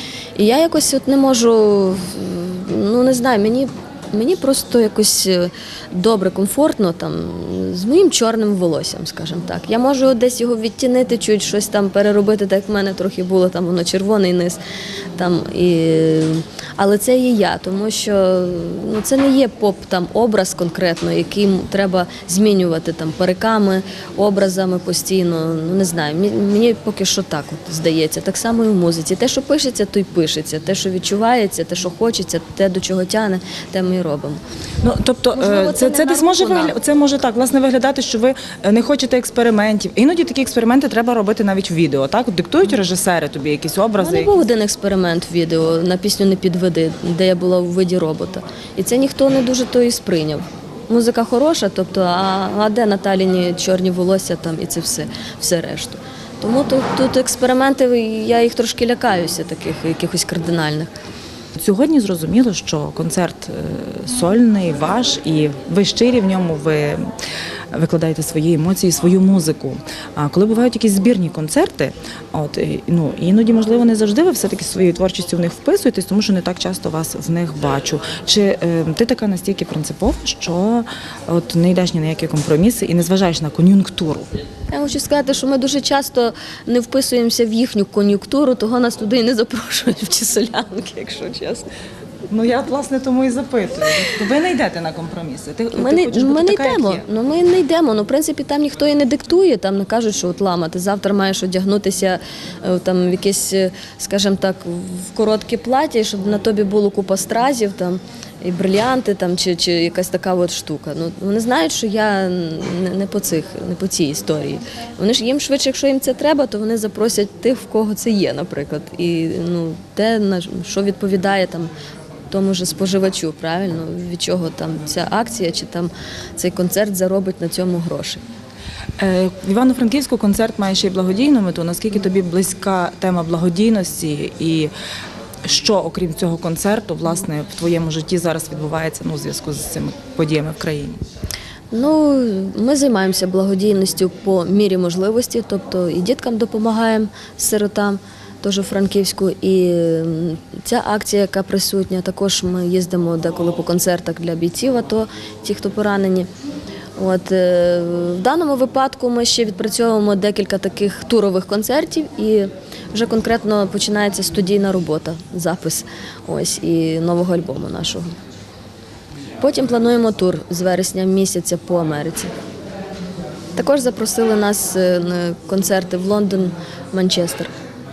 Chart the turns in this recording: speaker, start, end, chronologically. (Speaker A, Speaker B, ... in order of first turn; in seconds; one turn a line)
Speaker A: 0.4-14.6
Speaker A: 15.2-34.4
Speaker B: 34.8-44.3
Speaker A: 35.4-36.8
Speaker A: 44.0-60.9
Speaker B: 61.5-67.0
Speaker B: 67.7-84.3
Speaker A: 84.7-91.7
Speaker B: 92.3-97.0
Speaker A: 95.7-121.7
Speaker A: 122.3-128.2
Speaker B: 129.0-134.7
Speaker B: 135.4-141.0
Speaker A: 141.7-156.3
Speaker A: 157.0-168.1
Speaker A: 169.4-172.3
Speaker A: 173.6-177.5